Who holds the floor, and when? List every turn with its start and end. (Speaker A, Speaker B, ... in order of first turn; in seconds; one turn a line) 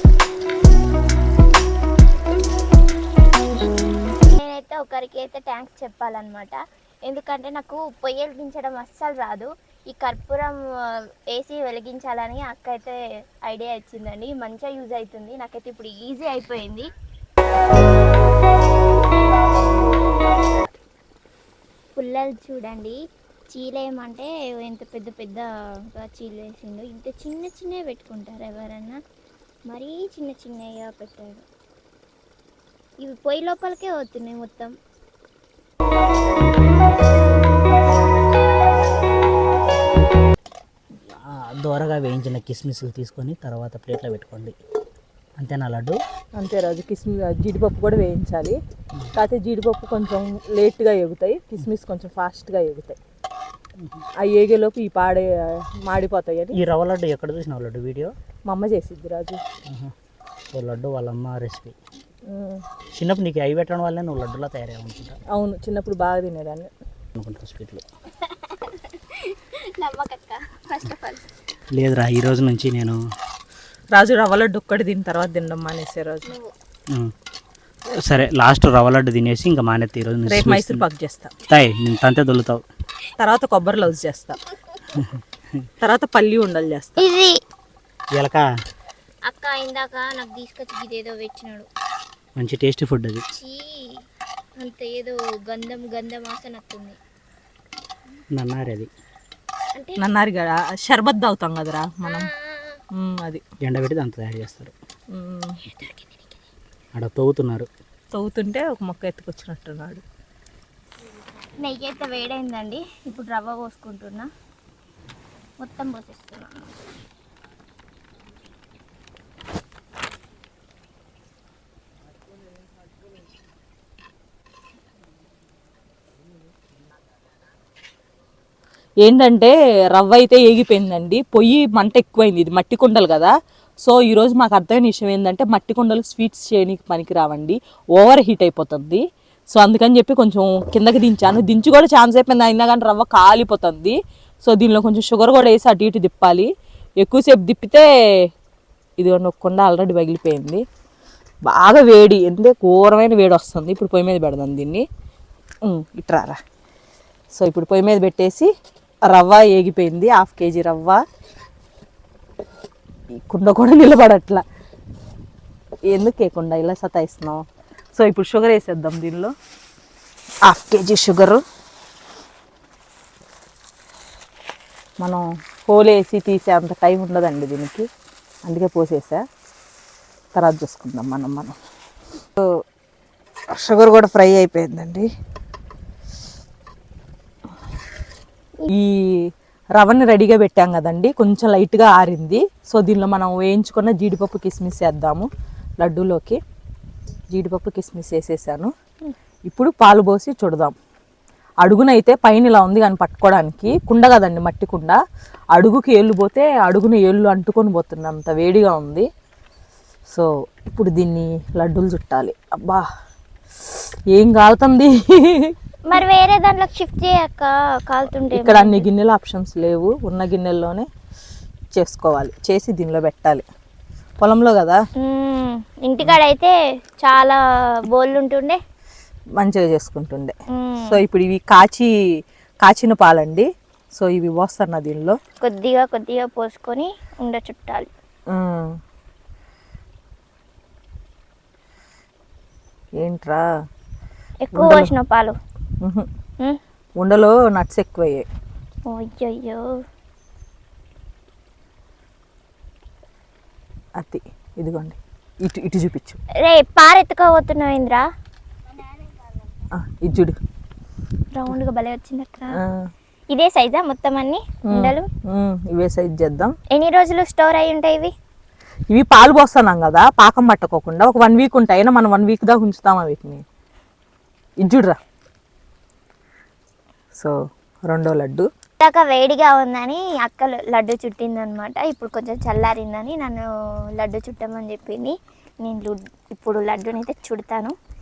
Speaker A: 4.3-16.9
Speaker A: 22.0-23.0
Speaker A: 23.5-29.0
Speaker A: 29.7-31.4
Speaker A: 33.0-34.7
Speaker B: 41.1-44.6
Speaker B: 45.4-46.0
Speaker C: 46.4-48.6
Speaker C: 49.1-53.0
Speaker C: 54.2-56.6
Speaker B: 56.5-58.1
Speaker C: 58.5-59.4
Speaker B: 59.7-59.9
Speaker B: 60.5-61.8
Speaker C: 62.3-62.6
Speaker B: 62.9-65.2
Speaker C: 65.3-66.7
Speaker B: 67.2-67.8
Speaker A: 68.2-71.3
Speaker B: 71.7-73.0
Speaker C: 73.9-76.3
Speaker A: 76.3-76.5
Speaker B: 78.0-80.8
Speaker C: 80.3-81.3
Speaker B: 81.5-82.6
Speaker C: 83.2-84.4
Speaker C: 85.8-87.1
Speaker A: 87.0-87.4
Speaker B: 88.1-88.5
Speaker A: 89.3-91.7
Speaker B: 92.4-93.2
Speaker A: 93.3-94.0
Speaker A: 94.6-97.0
Speaker B: 98.3-98.9
Speaker A: 99.7-100.0
Speaker C: 100.0-102.3
Speaker A: 102.0-102.8
Speaker C: 102.9-103.4
Speaker B: 103.6-104.7
Speaker C: 105.1-105.6
Speaker A: 105.6-106.3
Speaker B: 107.0-107.7
Speaker C: 108.1-110.0
Speaker A: 111.6-114.3
Speaker A: 115.6-116.7
Speaker C: 129.0-148.3
Speaker C: 149.0-150.6
Speaker C: 151.4-154.9
Speaker C: 155.7-156.4
Speaker C: 157.3-158.5
Speaker C: 159.1-161.0
Speaker C: 163.3-164.4
Speaker C: 165.9-169.3
Speaker C: 170.4-171.4
Speaker C: 175.0-177.9
Speaker C: 178.4-179.2
Speaker C: 180.3-181.5
Speaker C: 183.5-185.1
Speaker C: 188.7-195.3
Speaker C: 195.8-196.4
Speaker C: 197.3-198.7
Speaker C: 199.5-200.8
Speaker C: 201.6-205.0
Speaker C: 205.5-209.1
Speaker C: 210.1-212.9
Speaker C: 213.7-215.5
Speaker A: 215.9-218.9
Speaker C: 218.3-220.9
Speaker C: 221.7-223.4
Speaker C: 224.2-224.8
Speaker A: 225.0-228.6
Speaker C: 229.4-230.3
Speaker A: 230.5-231.0
Speaker C: 230.9-231.9
Speaker C: 232.6-235.2
Speaker A: 235.4-237.9
Speaker C: 238.3-238.7
Speaker C: 243.0-243.4
Speaker A: 244.4-245.3
Speaker C: 244.6-244.9
Speaker C: 245.8-246.1
Speaker C: 247.0-248.3
Speaker A: 248.9-249.6
Speaker C: 254.0-256.2
Speaker A: 256.4-258.1
Speaker C: 259.7-260.4
Speaker A: 261.3-262.6
Speaker C: 262.6-262.9
Speaker A: 263.3-265.1
Speaker C: 264.7-266.5
Speaker A: 266.7-268.1
Speaker C: 268.9-273.4
Speaker C: 274.6-275.0
Speaker C: 277.9-278.5
Speaker A: 278.8-283.4
Speaker A: 284.0-287.8